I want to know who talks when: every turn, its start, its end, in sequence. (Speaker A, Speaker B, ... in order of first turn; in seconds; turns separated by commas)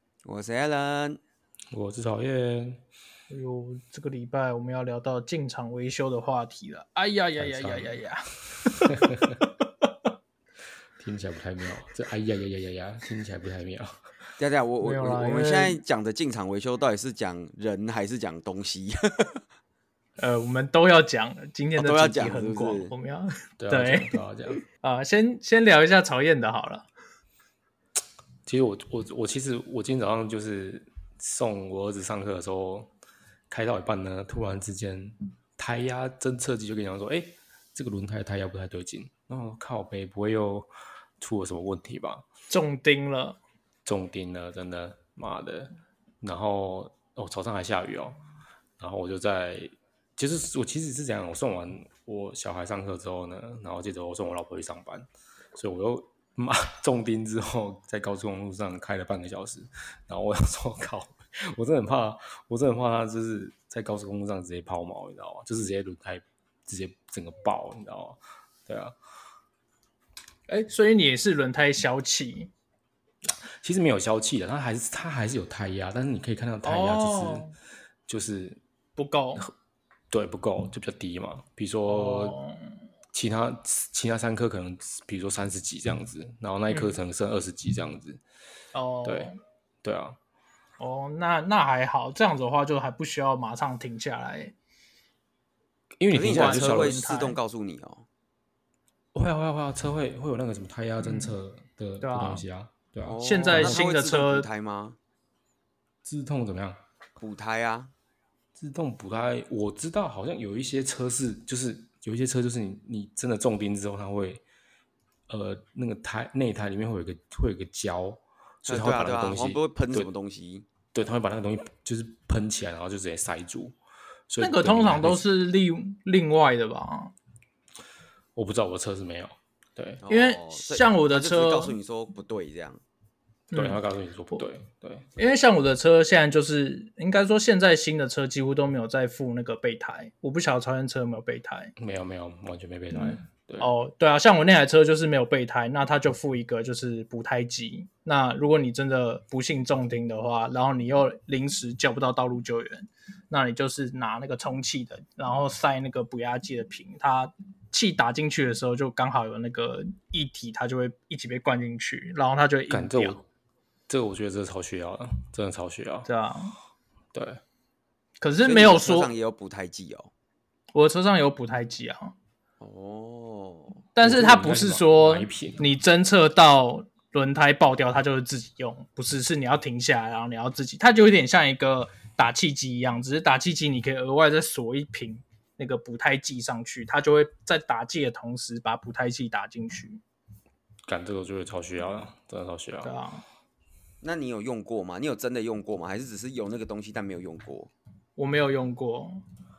Speaker A: 0.2-1.2, Speaker B: 1.7-2.8, Speaker C: 3.3-9.7, Speaker B: 7.4-7.9, Speaker B: 8.9-9.4, Speaker B: 11.0-14.0, Speaker A: 14.4-19.1, Speaker C: 14.8-15.8, Speaker C: 20.2-24.1, Speaker A: 21.8-22.9, Speaker B: 23.6-24.6, Speaker C: 24.8-26.9, Speaker B: 28.5-32.9, Speaker B: 33.5-40.7, Speaker B: 41.2-42.3, Speaker C: 42.5-43.4, Speaker B: 43.9-45.7, Speaker B: 46.2-48.2, Speaker B: 48.8-69.0, Speaker C: 70.5-72.5, Speaker B: 73.3-77.5, Speaker C: 76.6-77.5, Speaker B: 78.1-78.6, Speaker C: 79.0-79.5, Speaker B: 80.1-82.4, Speaker C: 81.9-82.7, Speaker B: 83.1-88.2, Speaker C: 86.7-87.0, Speaker C: 88.7-89.4, Speaker B: 89.0-90.2, Speaker C: 90.8-94.5, Speaker B: 96.0-97.0, Speaker A: 96.1-98.0, Speaker C: 96.2-97.4, Speaker B: 99.1-103.8, Speaker C: 101.0-101.4, Speaker C: 102.0-102.4, Speaker A: 103.1-105.0, Speaker C: 103.2-104.5, Speaker B: 106.0-106.8, Speaker A: 107.2-107.9, Speaker B: 108.5-114.4, Speaker B: 115.3-120.1, Speaker A: 118.7-120.7, Speaker B: 120.9-123.8, Speaker B: 124.3-125.2, Speaker C: 124.4-127.1, Speaker B: 128.3-130.0, Speaker A: 130.0-132.8, Speaker C: 130.1-131.8, Speaker C: 133.5-133.8, Speaker B: 133.5-135.1, Speaker C: 135.2-141.7, Speaker B: 141.8-143.7, Speaker C: 142.9-163.2, Speaker B: 162.7-163.2, Speaker B: 163.9-166.1, Speaker C: 166.1-166.6, Speaker B: 167.1-167.4, Speaker C: 168.2-169.1, Speaker A: 168.4-170.1, Speaker C: 170.7-172.2, Speaker A: 172.6-173.8, Speaker C: 173.9-190.0, Speaker B: 174.0-175.7, Speaker B: 190.9-192.9, Speaker C: 192.8-193.2, Speaker A: 194.0-197.7, Speaker C: 198.2-199.2